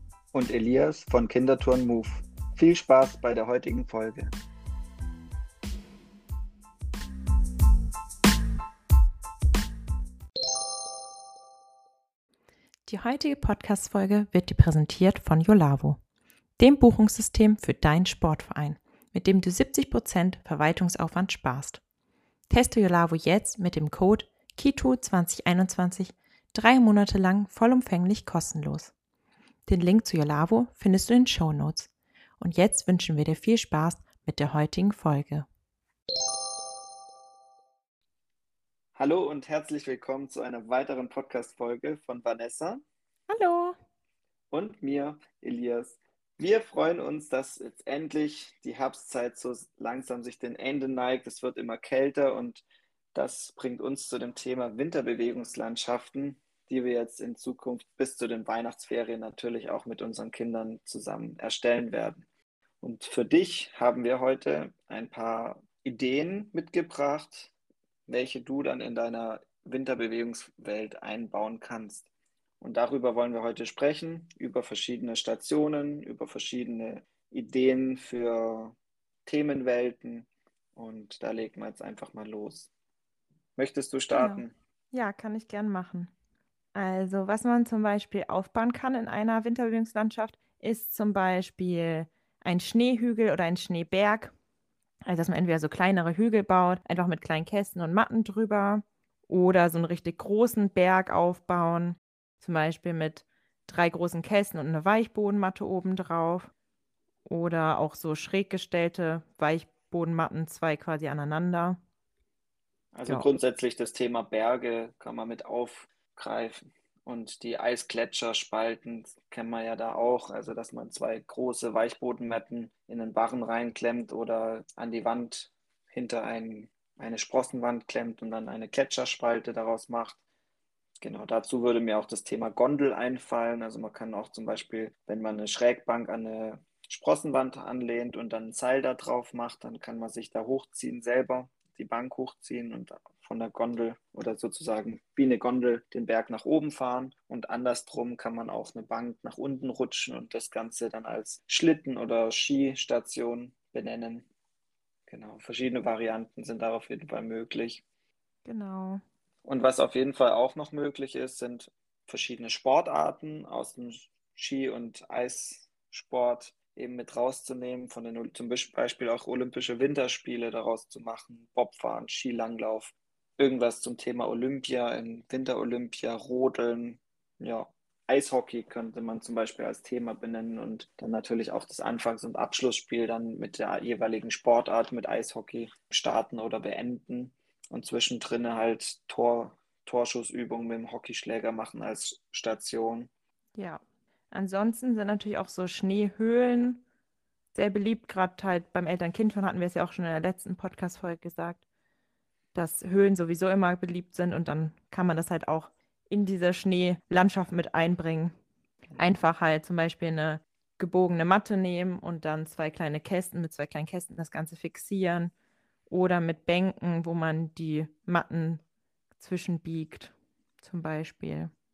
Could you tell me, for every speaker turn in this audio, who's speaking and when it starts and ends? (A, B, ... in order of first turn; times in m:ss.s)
0:00.3-0:04.3 A
0:12.9-0:16.0 B
0:16.6-0:21.8 B
0:22.5-0:28.9 B
0:29.7-0:35.4 B
0:39.0-0:42.8 A
0:43.3-0:43.8 B
0:44.5-1:02.2 A
1:02.8-1:07.5 A
1:08.1-1:12.1 A
1:12.6-1:22.7 A
1:23.6-1:24.5 A
1:24.1-1:26.1 B
1:26.7-1:34.3 B
1:35.0-1:46.5 B
1:47.2-1:51.8 B
1:52.9-2:10.2 A
2:11.0-2:34.3 A
2:35.1-2:37.8 A
2:38.4-2:39.0 B
2:39.4-3:13.1 A
3:13.5-3:16.8 B
3:17.5-3:21.6 B
3:22.5-3:28.3 B
3:28.9-3:29.1 A
3:29.0-3:35.3 B
3:35.9-3:38.6 B
3:39.2-3:41.5 B